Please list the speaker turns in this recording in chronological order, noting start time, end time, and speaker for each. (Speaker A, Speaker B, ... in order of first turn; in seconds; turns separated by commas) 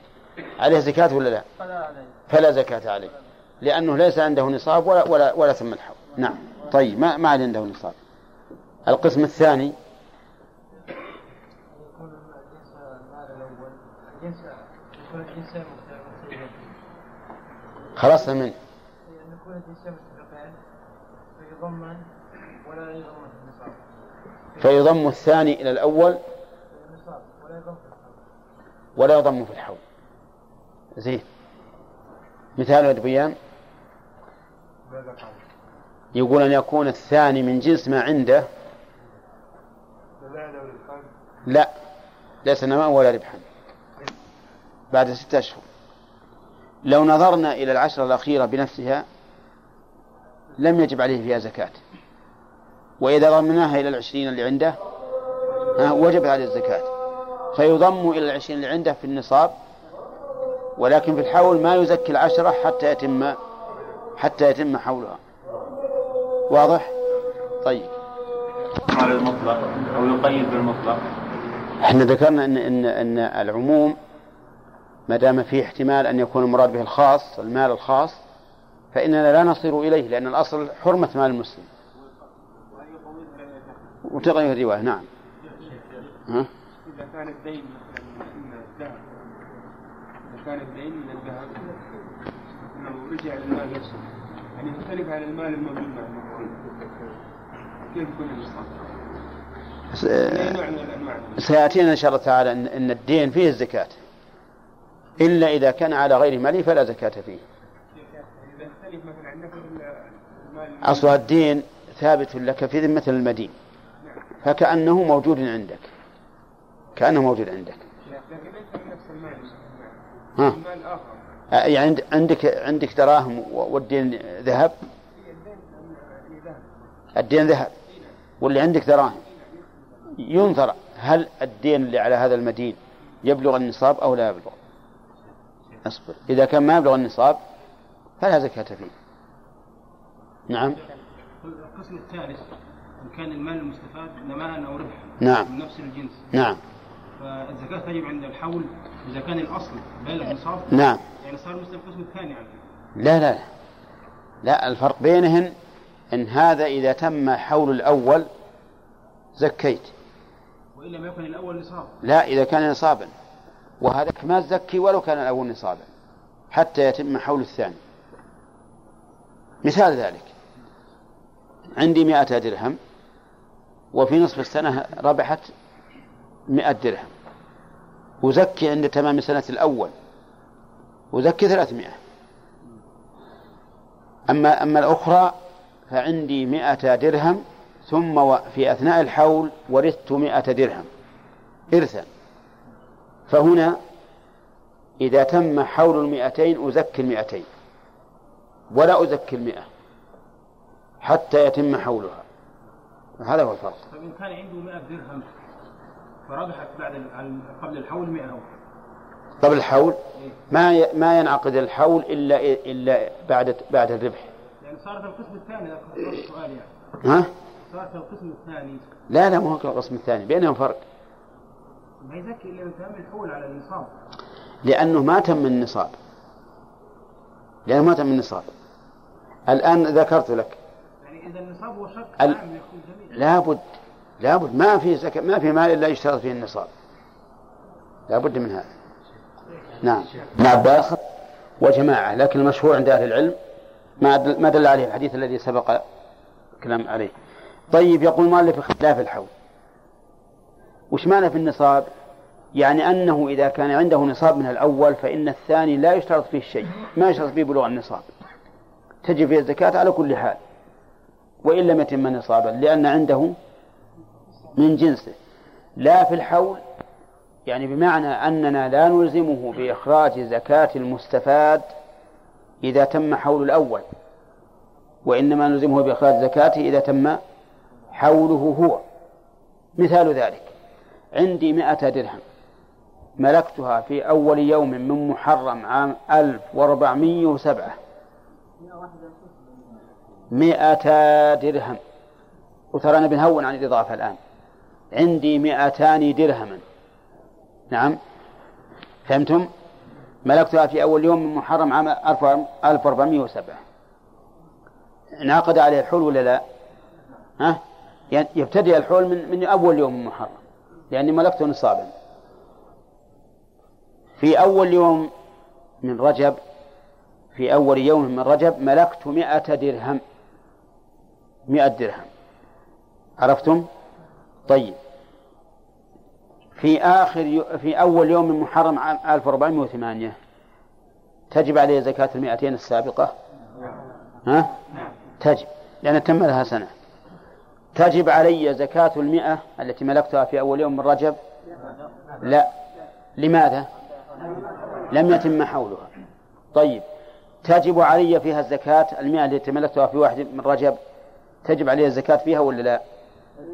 Speaker A: 0.6-1.4, Speaker B: 1.6-2.2, Speaker A: 2.3-8.0, Speaker A: 8.9-9.8, Speaker B: 11.7-16.7, Speaker A: 18.0-18.6, Speaker B: 19.1-20.6, Speaker B: 21.4-22.1, Speaker B: 22.6-23.8, Speaker A: 24.6-26.2, Speaker B: 26.7-28.1, Speaker A: 29.0-29.8, Speaker A: 31.0-31.2, Speaker A: 32.6-33.4, Speaker C: 34.9-35.4, Speaker A: 36.1-38.5, Speaker C: 40.2-41.0, Speaker A: 42.4-43.4, Speaker A: 44.9-45.6, Speaker A: 46.9-49.0, Speaker A: 50.6-51.8, Speaker A: 53.0-54.8, Speaker A: 55.8-56.9, Speaker A: 57.5-59.5, Speaker A: 60.8-63.4, Speaker A: 64.2-65.2, Speaker A: 66.5-66.9, Speaker A: 67.6-67.9, Speaker D: 68.9-71.0, Speaker A: 71.8-74.0, Speaker A: 75.1-78.2, Speaker A: 78.9-81.7, Speaker C: 83.1-83.4, Speaker A: 84.0-85.1, Speaker C: 86.8-89.1, Speaker C: 90.3-91.7, Speaker C: 92.7-94.0, Speaker C: 94.5-96.6, Speaker C: 97.9-98.9, Speaker A: 99.9-100.6, Speaker C: 100.3-101.4, Speaker A: 101.4-104.0, Speaker A: 105.2-107.4, Speaker C: 108.5-111.2, Speaker A: 110.8-113.5, Speaker A: 114.4-115.9, Speaker A: 117.0-117.8, Speaker C: 118.0-121.2, Speaker A: 121.5-124.8, Speaker C: 125.2-126.7, Speaker A: 127.2-127.7, Speaker A: 128.4-129.2, Speaker A: 130.2-134.6, Speaker A: 135.8-137.4, Speaker A: 138.2-138.9, Speaker A: 140.5-140.8, Speaker E: 141.4-142.5, Speaker E: 143.0-146.2, Speaker A: 145.2-145.5, Speaker A: 146.3-146.6, Speaker E: 147.2-150.7, Speaker A: 150.7-151.0, Speaker E: 151.2-152.6, Speaker A: 153.0-153.5, Speaker A: 154.4-155.6, Speaker A: 156.1-158.3, Speaker A: 159.4-159.9, Speaker E: 160.8-161.9, Speaker A: 162.0-163.1, Speaker A: 163.8-165.9, Speaker A: 166.5-167.8, Speaker A: 169.6-170.3, Speaker A: 171.8-172.8, Speaker A: 173.9-175.5, Speaker A: 176.5-177.1, Speaker A: 178.2-179.9, Speaker A: 181.1-182.0, Speaker A: 184.3-185.4, Speaker A: 185.9-190.9, Speaker A: 191.7-192.1, Speaker A: 193.3-193.8, Speaker A: 195.0-197.5, Speaker A: 198.7-199.7, Speaker A: 201.0-202.2, Speaker A: 203.2-203.8, Speaker E: 203.9-205.3, Speaker E: 206.3-208.5, Speaker A: 209.4-214.3, Speaker E: 214.6-216.7, Speaker A: 217.0-217.3, Speaker E: 217.7-218.9, Speaker A: 219.1-220.8, Speaker E: 222.0-223.9, Speaker A: 224.6-226.0, Speaker A: 227.7-228.5, Speaker A: 229.5-230.6, Speaker E: 231.0-233.1, Speaker A: 233.1-233.7, Speaker A: 234.2-236.7, Speaker A: 238.1-238.7, Speaker A: 239.8-241.0, Speaker A: 241.6-243.4, Speaker A: 244.0-245.8, Speaker A: 246.6-247.1, Speaker A: 247.7-249.3, Speaker A: 250.9-251.9, Speaker A: 252.6-258.1, Speaker A: 259.0-260.4, Speaker A: 261.4-263.4, Speaker A: 264.6-265.2, Speaker A: 265.8-266.6, Speaker A: 267.5-271.7, Speaker A: 272.6-273.9, Speaker A: 275.1-277.2, Speaker A: 277.9-278.8, Speaker A: 279.8-280.5, Speaker A: 281.1-282.2, Speaker A: 283.2-287.8, Speaker B: 288.6-289.3, Speaker A: 290.3-291.8, Speaker A: 292.7-294.2, Speaker A: 294.9-296.6, Speaker A: 297.7-298.0, Speaker A: 299.1-299.5, Speaker A: 300.2-303.6, Speaker A: 305.2-306.4, Speaker A: 307.4-311.9, Speaker A: 314.2-315.1, Speaker A: 315.8-316.4, Speaker A: 317.4-320.0, Speaker A: 321.5-322.1, Speaker A: 323.2-323.7, Speaker A: 324.5-324.8, Speaker A: 326.6-330.2, Speaker A: 331.3-333.2, Speaker A: 334.2-334.5, Speaker A: 335.2-336.7, Speaker A: 337.8-341.2, Speaker A: 342.2-342.5, Speaker A: 343.2-343.7, Speaker A: 344.9-345.9, Speaker A: 346.5-346.9, Speaker A: 347.4-350.8, Speaker A: 351.4-352.8